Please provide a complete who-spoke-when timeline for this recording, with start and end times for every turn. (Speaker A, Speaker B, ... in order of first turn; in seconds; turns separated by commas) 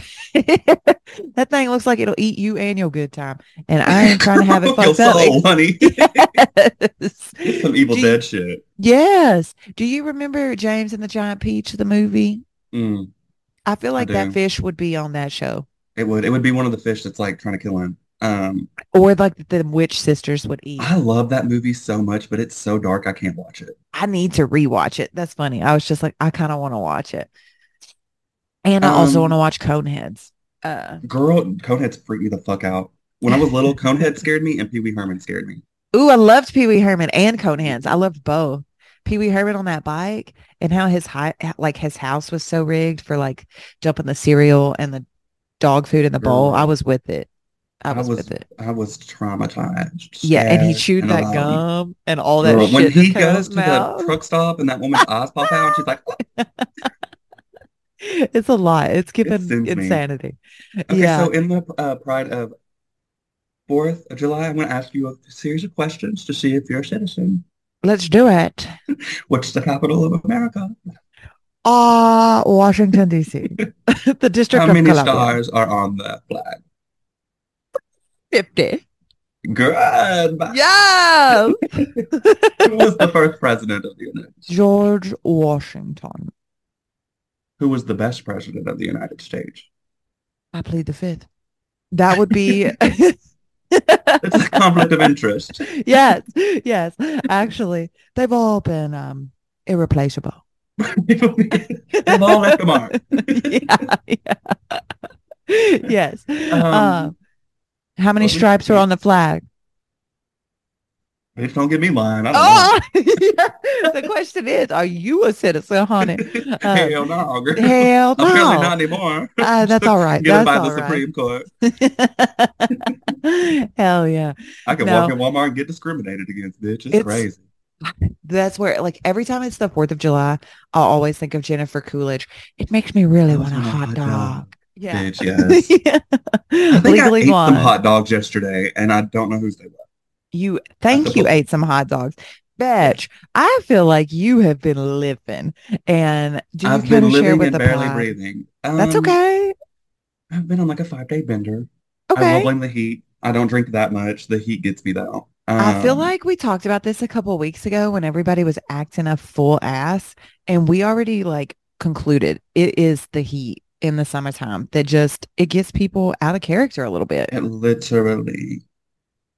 Speaker A: 0.1-8.2, Speaker B: 3.9-6.4, Speaker B: 7.4-8.6, Speaker A: 8.8-12.4, Speaker B: 12.7-13.1, Speaker A: 13.7-15.7, Speaker B: 14.0-14.3, Speaker B: 15.9-18.7, Speaker A: 18.9-20.9, Speaker B: 20.8-23.7, Speaker A: 23.9-27.3, Speaker A: 28.6-31.0, Speaker B: 28.8-29.4, Speaker B: 31.0-35.6, Speaker A: 35.9-45.0, Speaker B: 37.6-38.0, Speaker A: 45.6-47.3, Speaker B: 46.2-46.7, Speaker A: 47.8-48.4, Speaker B: 47.9-51.6, Speaker A: 50.2-54.2, Speaker B: 52.4-56.2, Speaker A: 55.0-56.9, Speaker A: 58.0-61.3, Speaker B: 59.2-60.0, Speaker B: 60.9-62.5, Speaker B: 63.7-67.4, Speaker A: 67.8-68.7, Speaker B: 69.3-70.8, Speaker A: 71.6-75.4, Speaker B: 74.5-76.6, Speaker A: 78.3-78.8, Speaker B: 79.5-80.6, Speaker A: 80.5-82.8, Speaker B: 81.4-82.0, Speaker B: 82.6-84.5, Speaker A: 84.5-86.3, Speaker B: 87.6-89.7, Speaker A: 90.5-91.3, Speaker A: 91.9-93.2, Speaker B: 92.2-92.7, Speaker A: 93.7-95.0, Speaker B: 94.2-95.7, Speaker A: 95.7-100.4, Speaker B: 100.8-103.6, Speaker A: 101.9-104.8, Speaker A: 105.5-107.1, Speaker B: 106.5-107.1, Speaker A: 108.0-109.4, Speaker B: 108.2-108.8, Speaker B: 111.3-112.8, Speaker A: 112.3-117.0, Speaker B: 116.0-121.5, Speaker A: 117.5-118.7, Speaker A: 119.4-121.0, Speaker A: 121.6-125.2, Speaker B: 124.7-127.4, Speaker A: 126.9-127.3, Speaker A: 127.8-137.7, Speaker B: 133.3-135.7, Speaker B: 136.8-139.8, Speaker A: 140.3-148.1, Speaker B: 140.9-141.3, Speaker B: 146.6-149.2, Speaker A: 148.8-149.5, Speaker B: 150.3-156.1, Speaker A: 152.1-152.5, Speaker A: 155.6-167.3, Speaker B: 167.3-168.6